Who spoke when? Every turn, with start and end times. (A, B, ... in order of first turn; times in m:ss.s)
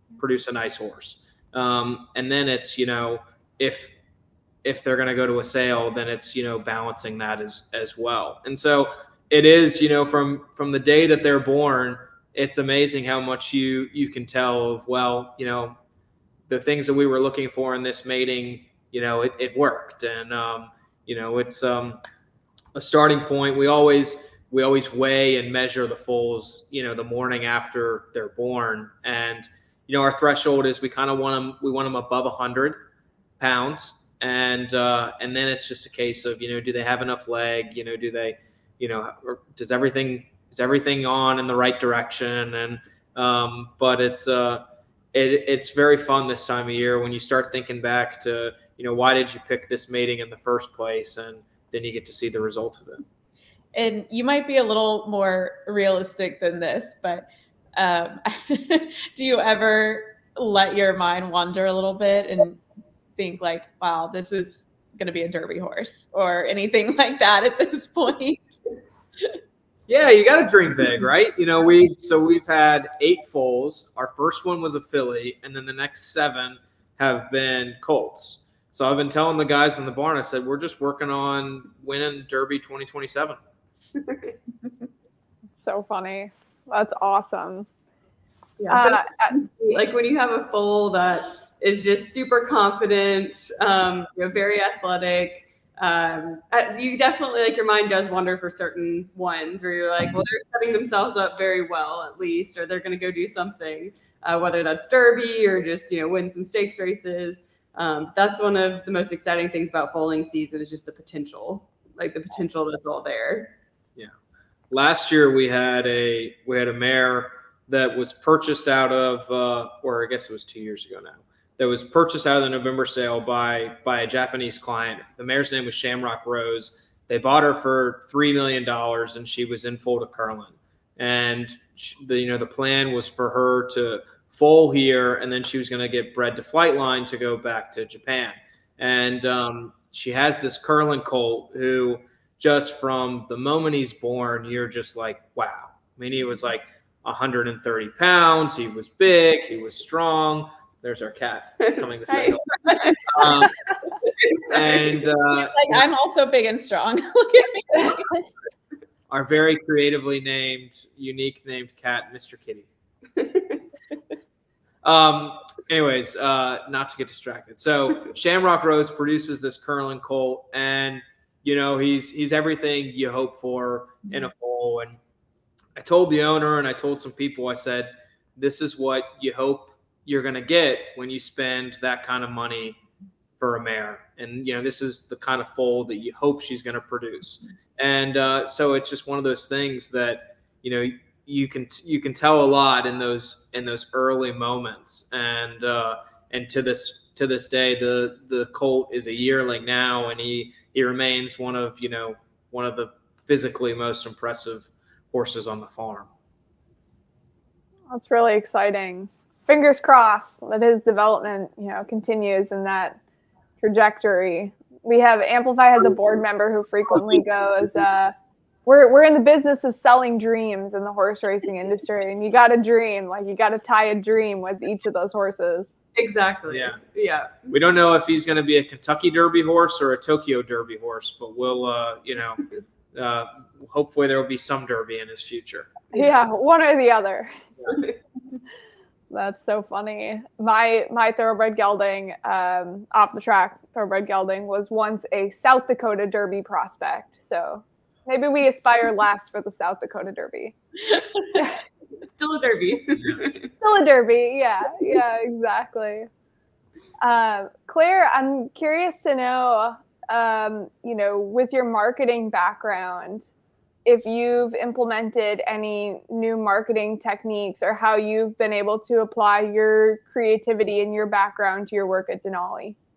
0:00.2-0:03.9 A
0:04.6-0:15.8 A
0:16.5-0:22.0 A
0:22.7-0:32.8 A
0:33.4-0:53.0 A
0:53.7-1:02.6 B
1:03.2-1:08.6 B
1:09.9-1:23.4 A
1:24.0-1:24.3 C
1:25.6-1:27.7 D
1:28.6-1:53.5 C
1:28.7-1:29.4 D
1:54.7-2:33.8 A
2:32.1-2:33.4 C
2:34.2-2:34.9 C
2:34.5-2:35.8 A
2:35.3-2:38.2 B
2:39.1-2:42.7 A
2:43.2-2:43.6 C
2:44.8-2:55.0 A
2:55.8-3:02.8 A
3:03.4-3:26.1 A
3:27.9-3:33.0 D
3:33.6-3:38.1 D
3:38.6-3:45.7 D
3:45.9-3:47.5 C
3:46.5-3:46.8 A
3:47.5-3:55.7 A
3:55.9-3:57.3 D
3:59.1-4:10.6 D
4:12.0-4:13.5 C
4:13.6-4:16.1 D
4:17.0-4:23.3 D
4:23.8-4:32.8 D